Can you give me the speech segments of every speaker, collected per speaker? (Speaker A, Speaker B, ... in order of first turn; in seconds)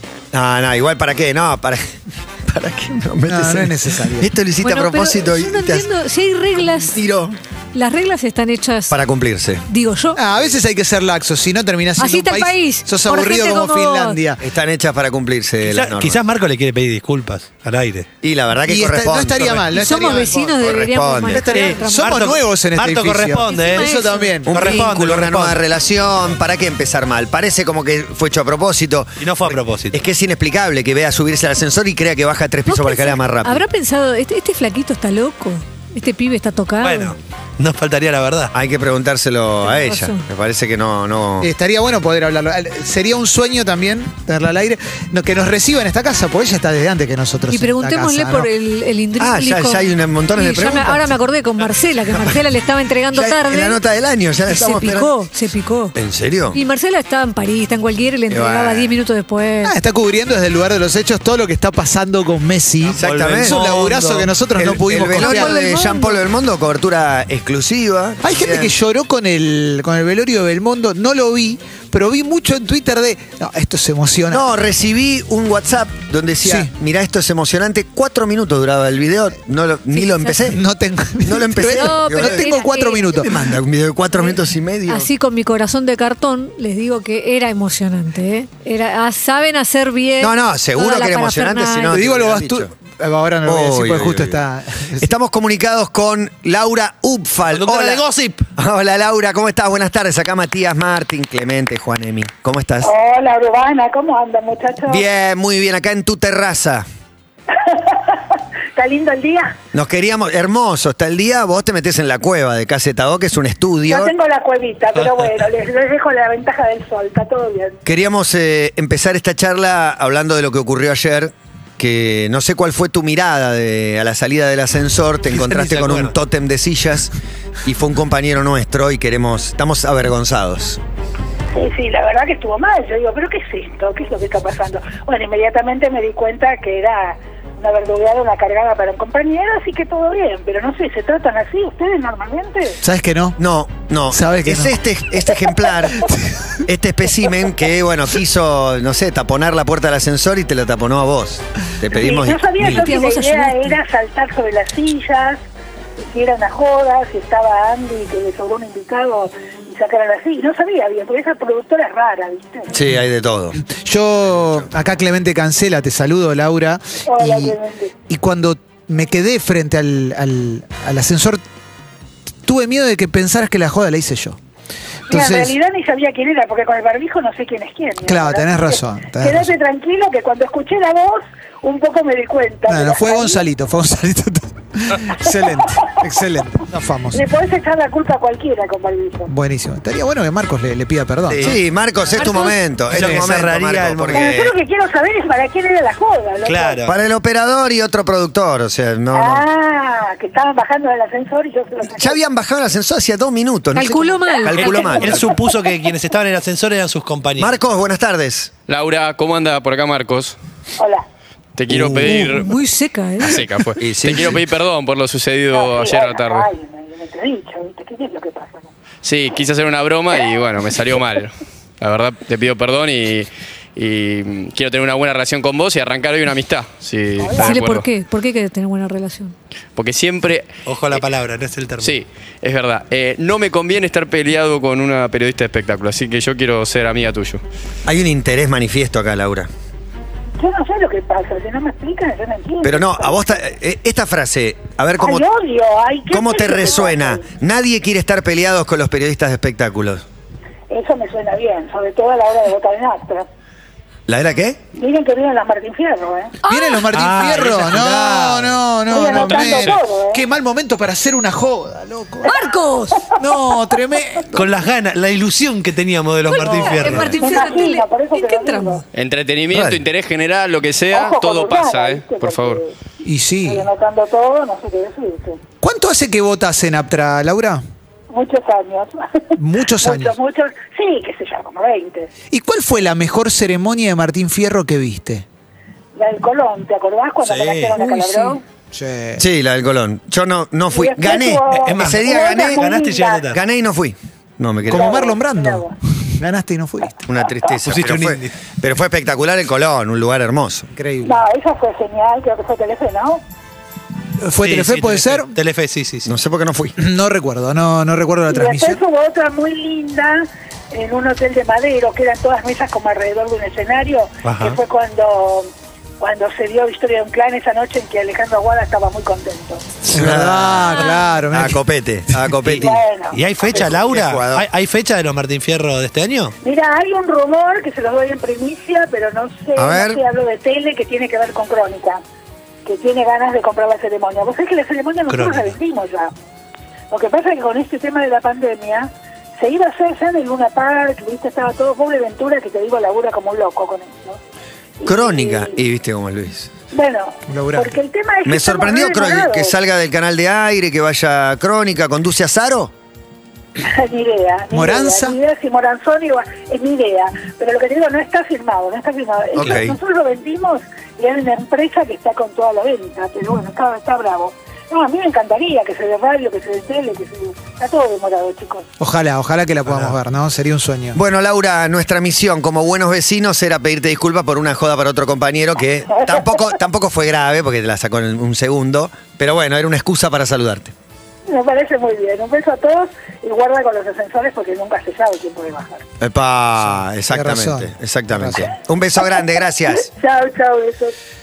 Speaker A: 0.3-1.8, 2.5-5.9, 6.7-7.4, 8.9-9.6, 14.4-16.2, 18.2-21.4, 24.4-33.6, 38.5-41.5, 49.2-51.1, 52.1-52.4, 53.1-55.1, 55.9-56.6, 58.3-59.0, 62.9-63.8, 64.5-68.7, 74.3-80.6, 81.2-82.5, 83.1-85.1, 90.2-92.7, 93.5-94.4, 95.0-98.0, 98.6-102.9, 104.9-106.8, 109.7-114.1, 117.8-127.1, 127.6-130.8, 143.4-146.0, 146.7-152.8, 162.7-163.6, 164.4-164.7, 191.4-194.5, 196.8-199.4, 201.8-205.4, 207.4-208.5, 211.7-212.3, 213.8-214.4, 237.8-239.5, 242.6-245.2, 246.1-250.0, 254.1-254.6, 266.8-267.2, 269.5-269.8, 289.2-292.6, 293.3-294.9, 297.1-300.7, 306.0-306.7, 319.9-322.8, 323.5-324.4, 329.6-330.0, 344.9-346.5, 348.2-352.7, 359.3-359.8, 370.9-380.7, 386.0-389.9
Speaker B: 3.3-4.3, 10.2-14.4, 18.7-20.5, 21.3-24.5, 41.4-48.5, 59.6-65.5, 68.2-74.4, 76.4-76.7, 80.6-83.2, 91.9-95.1, 142.8-143.3, 144.1-144.7, 163.7-167.5, 168.1-171.4, 172.4-174.4, 175.1-175.5, 178.1-179.5, 182.7-187.2, 189.3-191.5, 256.5-262.3, 263.2-264.2, 273.0-273.7, 275.6-277.6, 279.4-280.1, 282.3-285.2, 288.7-289.2, 294.8-295.6, 296.2-297.0, 300.8-301.2, 304.2-305.3, 306.8-308.8, 319.8-321.6, 347.3-347.7, 354.5-355.2, 368.8-370.9, 387.1-387.7
Speaker C: 4.6-7.0, 7.7-9.0, 9.7-10.2, 12.0-14.2, 19.7-22.2, 23.4-24.4, 32.6-37.1, 39.6-40.2, 47.5-53.8, 54.5-55.9, 56.5-59.7, 65.4-66.2, 79.9-80.4, 81.6-83.3, 84.9-92.0, 152.6-153.8, 192.2-192.6, 203.7-205.2, 212.0-213.4, 227.3-229.3, 256.4-256.9, 262.2-263.1, 266.2-268.8, 320.7-321.2
Speaker D: 15.6-18.1, 19.4-19.8, 21.5-25.6, 29.2-30.0, 36.8-38.5, 62.8-64.3, 97.5-98.5, 115.0-115.4, 125.2-126.1, 191.3-191.6, 192.9-194.3, 196.4-196.9, 204.5-207.5, 230.6-232.0, 256.9-258.6, 264.3-267.1, 287.2-288.2, 291.5-293.4, 297.6-298.3, 304.4-306.1, 314.2-314.6, 322.4-326.3, 335.1-335.6, 369.7-369.9
Speaker E: 102.8-105.0, 107.6-108.2, 108.7-109.5, 113.9-117.8, 131.5-142.8, 151.9-155.4, 156.1-162.7, 167.0-167.9, 175.1-183.4, 187.1-189.3, 194.1-196.8, 199.1-202.1, 210.8-211.0, 215.5-218.7, 227.2-227.6, 240.4-243.4, 245.0-247.2, 250.7-253.2, 254.8-256.4, 258.9-260.2, 266.6-268.8, 270.9-272.7, 273.4-275.4, 278.1-279.0, 279.8-282.1, 285.9-288.4, 290.7-293.3, 294.7-295.7, 301.0-303.2, 308.3-315.5, 316.0-319.7, 322.6-323.2, 326.4-332.0, 332.6-336.1, 336.9-338.9, 339.4-344.2, 344.8-345.6, 346.7-349.5, 353.6-368.6, 381.3-385.8, 389.8-390.9
Speaker F: 208.7-210.3, 211.6-212.5, 213.2-216.5, 219.0-227.9, 229.8-231.0, 231.8-237.4, 259.1-259.8, 268.9-272.6